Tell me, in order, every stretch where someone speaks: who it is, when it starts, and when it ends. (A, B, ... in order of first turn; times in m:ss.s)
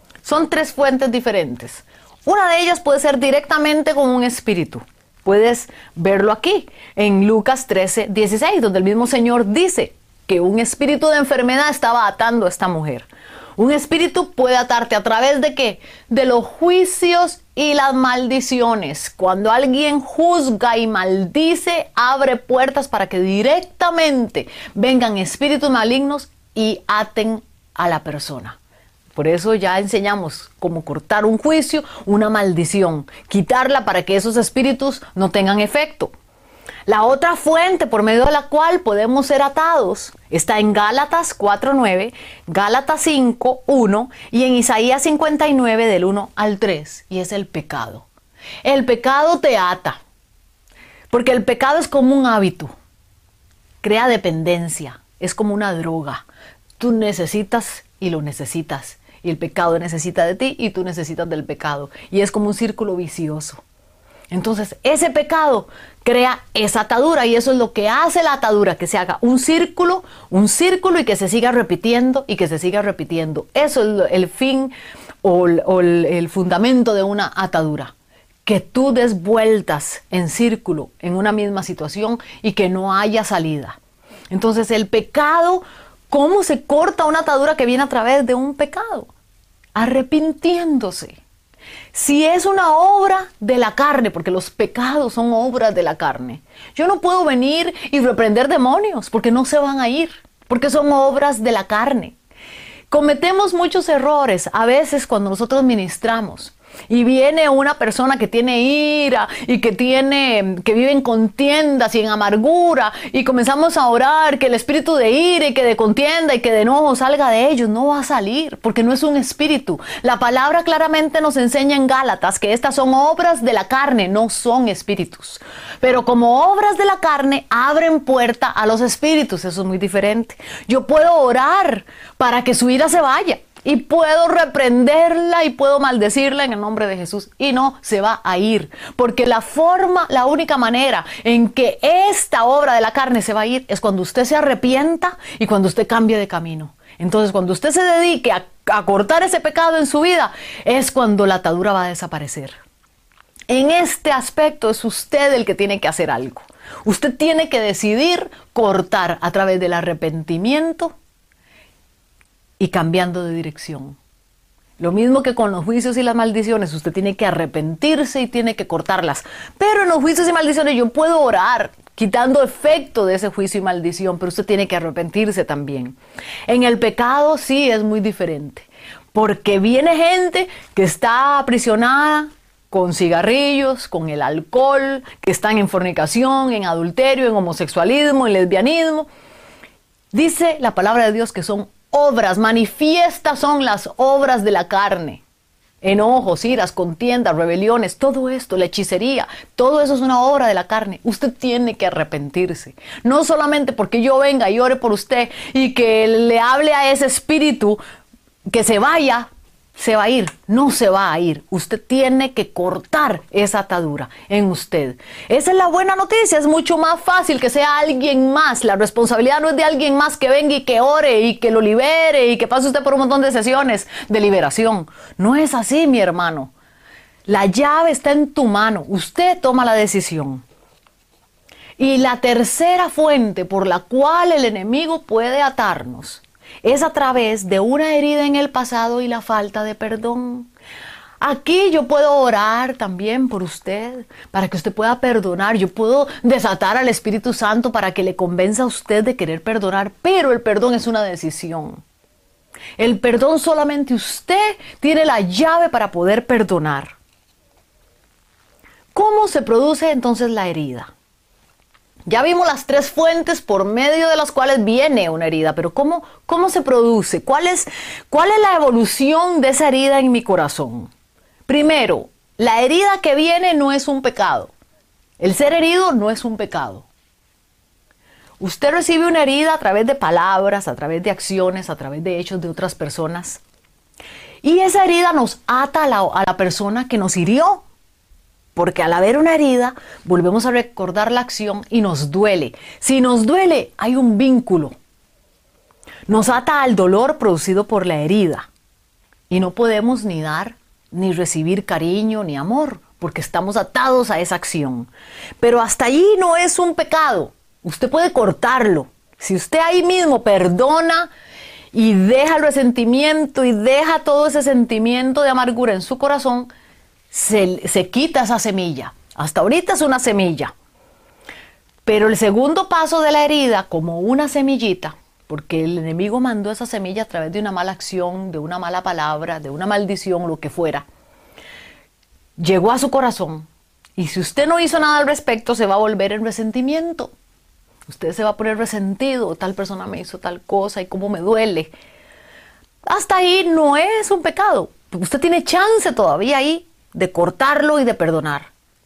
0:00.2-0:28.6 A
0:29.1-0:36.1 A
0:36.9-0:48.0 A
0:48.6-0:50.0 A
0:51.1-0:52.7 A
0:53.8-0:56.2 A
0:56.8-1:03.6 A
1:04.3-1:17.9 A
1:18.4-1:23.8 A
1:24.3-1:29.1 A
1:29.7-1:31.2 A
1:31.9-1:42.2 A
1:42.9-2:32.6 A
2:33.5-2:40.9 A
2:42.6-2:44.0 A
2:44.8-3:09.1 A
3:10.1-3:15.2 A
3:15.8-3:27.8 A
3:28.5-3:46.5 A
3:47.3-3:50.4 A
3:51.8-4:00.5 A
4:01.2-4:11.8 A
4:12.8-4:17.0 A
4:18.9-4:20.9 A
4:22.1-4:30.9 A
4:31.4-4:34.5 A
4:35.2-4:36.8 A
4:38.4-4:43.4 A
4:44.4-4:47.6 A
4:48.6-4:54.7 A
4:56.1-4:58.5 A
4:59.3-5:04.9 A
5:05.4-5:11.1 A
5:11.7-5:16.5 A
5:17.1-5:20.5 A
5:21.8-5:30.8 A
5:32.4-5:37.1 A
5:37.9-5:41.7 A
5:42.9-5:48.5 A